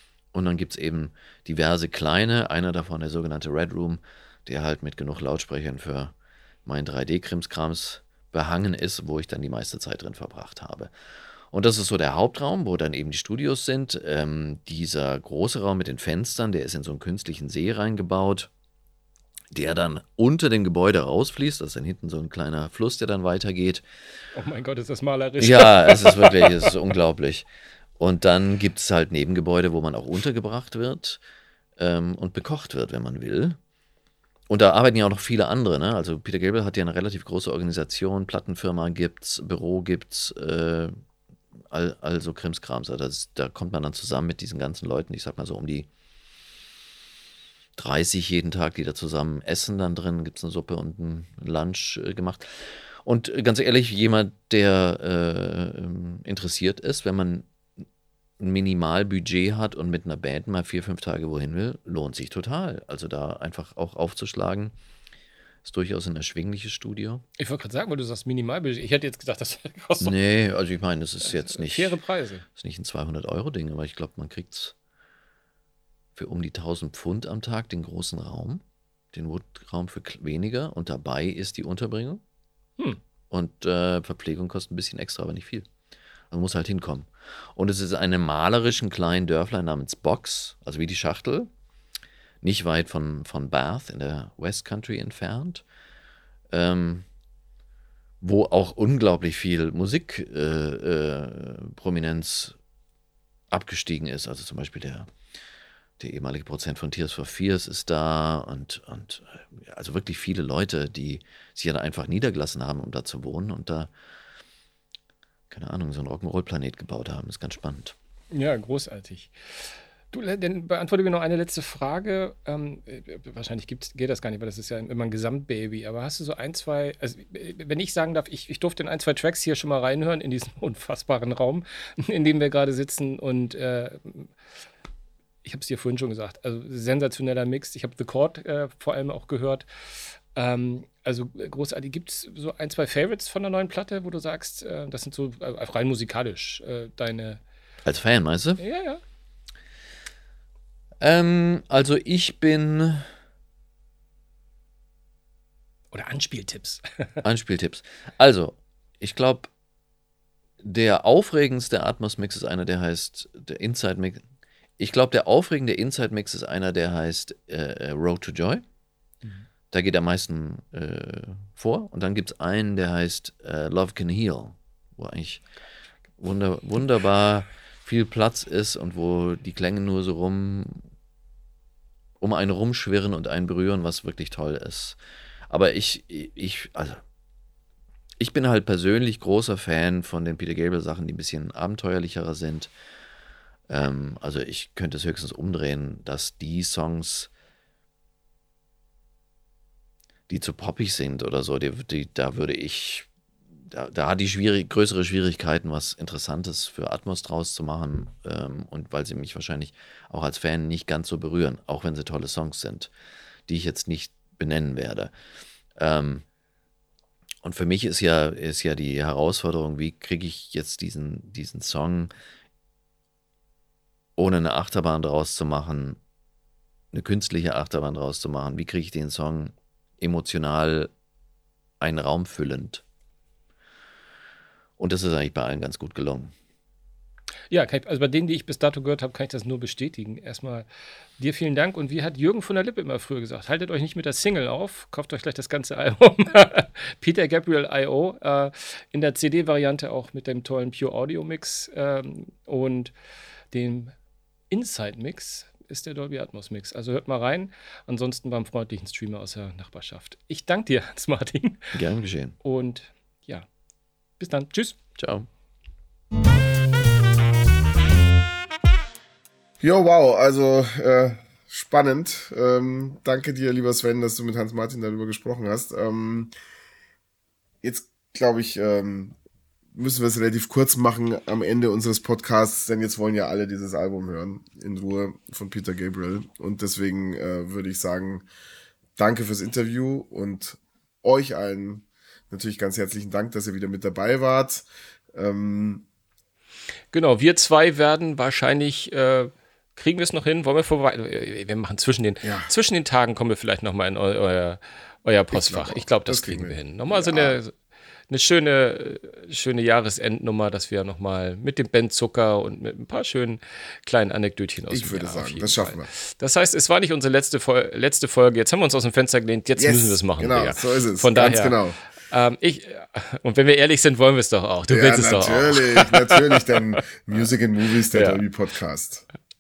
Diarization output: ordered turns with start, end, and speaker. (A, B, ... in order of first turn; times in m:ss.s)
0:00.3-0:06.1 A
0:06.6-0:10.9 A
0:11.5-0:18.5 A
0:19.5-0:23.8 A
0:24.4-0:26.7 B
0:25.4-0:27.5 A
0:28.0-0:31.2 A
0:31.8-0:33.6 A
0:34.5-0:40.9 A
0:41.7-0:45.9 A
0:47.8-0:57.5 A
0:58.4-1:04.7 A
1:05.6-1:07.2 A
1:07.4-1:10.2 B
1:10.0-1:12.0 A
1:11.2-1:12.4 B
1:12.5-1:14.7 A
1:16.2-1:22.2 A
1:23.3-1:25.7 A
1:26.3-1:31.5 A
1:32.4-1:35.6 A
1:36.5-1:37.1 A
1:38.2-1:42.6 A
1:43.5-1:45.1 A
1:46.0-1:53.9 A
1:55.5-1:58.0 A
1:58.3-2:14.3 B
2:15.4-2:27.4 B
2:27.8-2:28.6 A
2:28.6-2:29.0 B
2:31.0-2:33.1 A
2:35.9-2:37.2 B
2:37.2-2:39.5 A
2:40.6-2:44.2 A
2:44.8-2:48.6 A
2:49.7-2:55.5 A
2:56.2-3:00.9 A
3:02.2-3:05.0 A
3:05.5-3:07.0 A
3:08.2-3:12.7 A
3:13.7-3:17.3 A
3:20.3-3:23.1 A
3:23.7-3:32.9 A
3:33.5-3:35.1 A
3:35.8-3:36.2 A
3:37.4-3:42.1 A
3:44.2-3:46.0 A
3:46.9-3:50.9 A
3:51.8-3:52.8 A
3:54.8-3:56.3 A
3:57.5-4:00.7 B
4:01.2-4:12.9 B
4:13.5-4:13.9 B
4:14.5-4:21.7 B
4:21.7-4:22.4 A
4:22.4-4:23.5 B
4:24.2-4:24.8 B
4:25.0-4:25.3 A
4:29.6-4:36.3 C
4:37.6-4:39.2 C
4:39.7-4:48.3 C
4:49.0-4:55.8 C
4:56.9-5:07.5 B
5:02.2-5:02.5 C
5:05.3-5:07.4 C
5:08.1-5:26.8 B
5:14.7-5:15.9 C
5:19.6-5:21.8 C
5:24.7-5:29.1 C
5:27.9-5:28.2 B